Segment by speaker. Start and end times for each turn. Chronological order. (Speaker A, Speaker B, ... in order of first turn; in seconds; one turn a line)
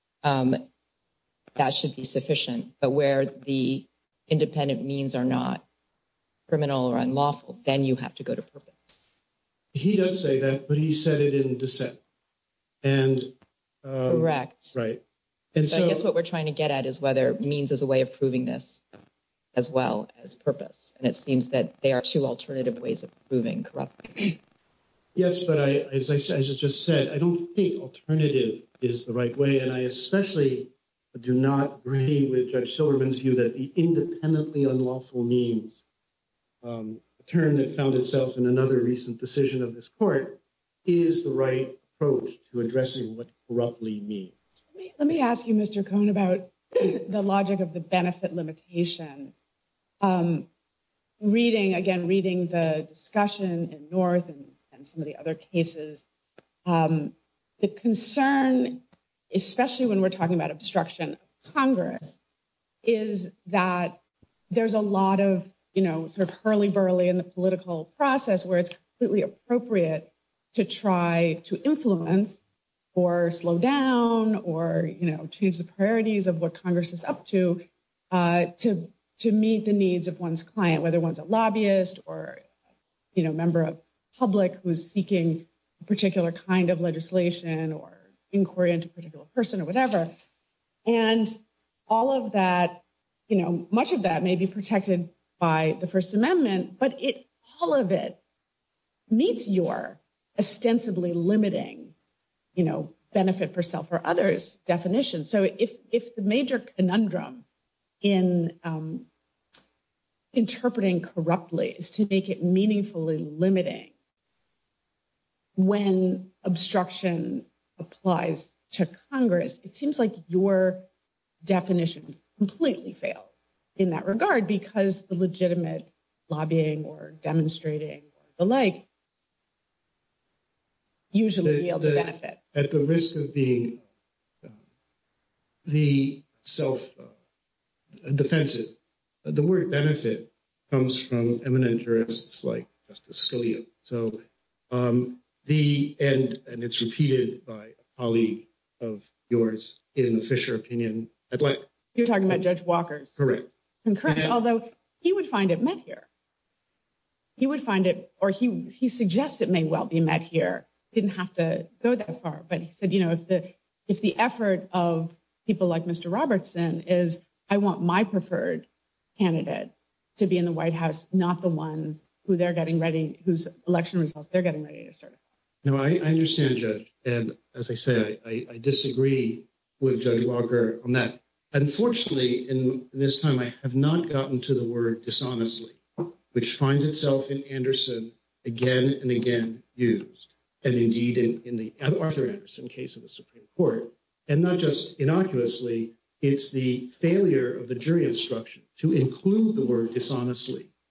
Speaker A: 0.2-0.7
Speaker A: 1.6-5.6
Speaker A: 6.5-9.0
Speaker B: 9.7-12.0
Speaker B: 12.8-15.0
Speaker A: 14.1-14.7
Speaker B: 15.5-16.1
Speaker A: 15.7-18.8
Speaker A: 19.5-24.4
Speaker B: 25.1-35.8
Speaker B: 36.6-44.3
Speaker C: 44.7-49.3
Speaker C: 50.0-50.5
Speaker C: 51.2-56.0
Speaker C: 56.6-62.2
Speaker C: 62.8-64.0
Speaker C: 64.5-72.4
Speaker C: 72.9-82.4
Speaker C: 83.1-90.1
Speaker C: 90.8-98.2
Speaker C: 99.1-101.9
Speaker C: 102.5-107.4
Speaker C: 108.0-109.1
Speaker C: 110.3-113.9
Speaker C: 115.5-120.9
Speaker C: 121.4-128.9
Speaker C: 131.1-132.4
Speaker B: 131.4-133.8
Speaker B: 135.6-137.1
Speaker B: 138.0-151.7
Speaker C: 151.9-153.2
Speaker B: 153.2-153.5
Speaker C: 153.8-156.1
Speaker B: 154.1-154.4
Speaker C: 157.4-175.2
Speaker B: 175.6-200.7